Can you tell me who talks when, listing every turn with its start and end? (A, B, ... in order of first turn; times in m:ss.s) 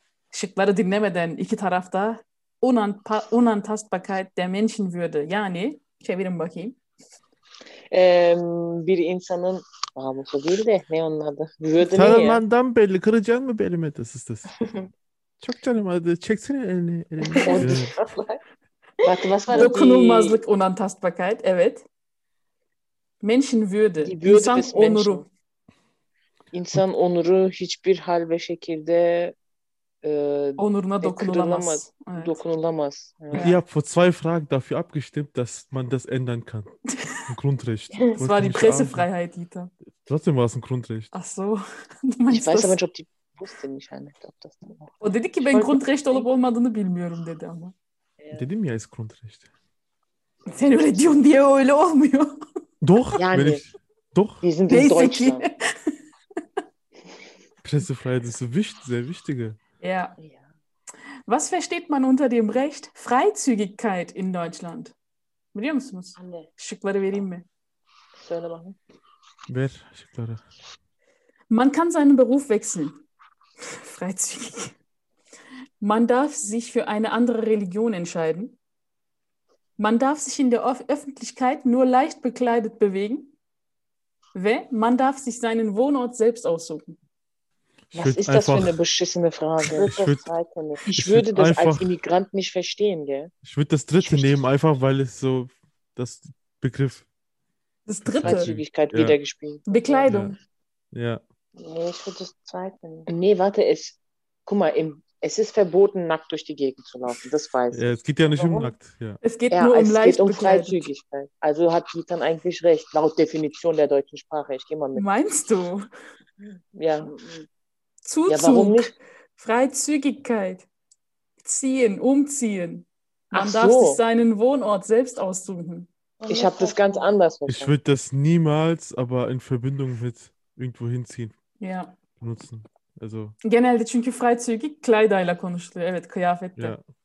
0:00.3-0:06.8 A
0:07.9-0:12.4 B
0:11.8-0:14.7 C
0:15.4-0:17.9 C
0:17.2-0:18.4 D
0:17.4-0:18.0 B
0:19.0-0:19.7 D
0:19.0-0:20.4 B
0:19.5-0:21.8 A
0:23.2-0:25.3 A
0:24.0-0:25.3 B
0:26.5-0:29.4 B
0:30.0-0:33.5 B
0:30.6-0:32.4 A
0:33.3-0:33.6 A
0:33.3-0:39.1 C
0:38.2-0:39.7 A
0:40.0-0:41.1 C
0:41.1-0:42.8 A
0:42.3-0:44.9 B
0:45.0-0:47.7 A
0:45.4-0:45.8 B
0:48.2-0:48.5 B
0:48.3-0:49.5 C
0:50.5-0:52.4 A
0:50.5-0:51.2 B
0:52.8-0:54.4 C
0:53.2-0:53.6 B
0:54.4-0:55.4 B
0:54.7-0:55.9 A
0:57.6-0:59.6 C
0:59.8-1:00.2 A
1:01.3-1:05.0 A
1:05.5-1:07.4 A
1:06.2-1:06.5 D
1:08.2-1:08.8 B
1:09.5-1:10.4 C
1:11.5-1:13.0 A
1:13.6-1:14.8 A
1:15.8-1:18.6 A
1:19.8-1:23.3 A
1:24.4-1:27.0 A
1:27.9-1:28.8 C
1:27.9-1:30.0 B
1:29.7-1:30.8 D
1:29.8-1:30.2 C
1:30.8-1:33.3 B
1:30.9-1:31.9 C
1:33.4-1:37.1 C
1:34.0-1:34.4 B
1:37.9-1:38.5 A
1:38.0-1:39.2 C
1:38.2-1:40.1 B
1:39.7-1:40.4 A
1:40.1-1:40.4 C
1:40.9-1:41.2 C
1:41.6-1:43.1 D
1:43.1-1:47.9 B
1:47.7-1:49.2 C
1:48.3-1:48.7 D
1:49.2-1:50.9 A
1:49.5-1:55.1 B
1:55.0-1:55.9 A
1:56.8-1:57.1 B
1:57.0-1:57.5 D
1:58.0-2:00.7 A
1:58.3-1:59.0 B
2:01.4-2:05.9 A
2:03.3-2:04.0 B
2:06.2-2:07.1 D
2:06.3-2:07.7 B
2:07.5-2:11.4 C
2:11.6-2:12.0 A
2:12.2-2:13.4 C
2:13.4-2:16.8 A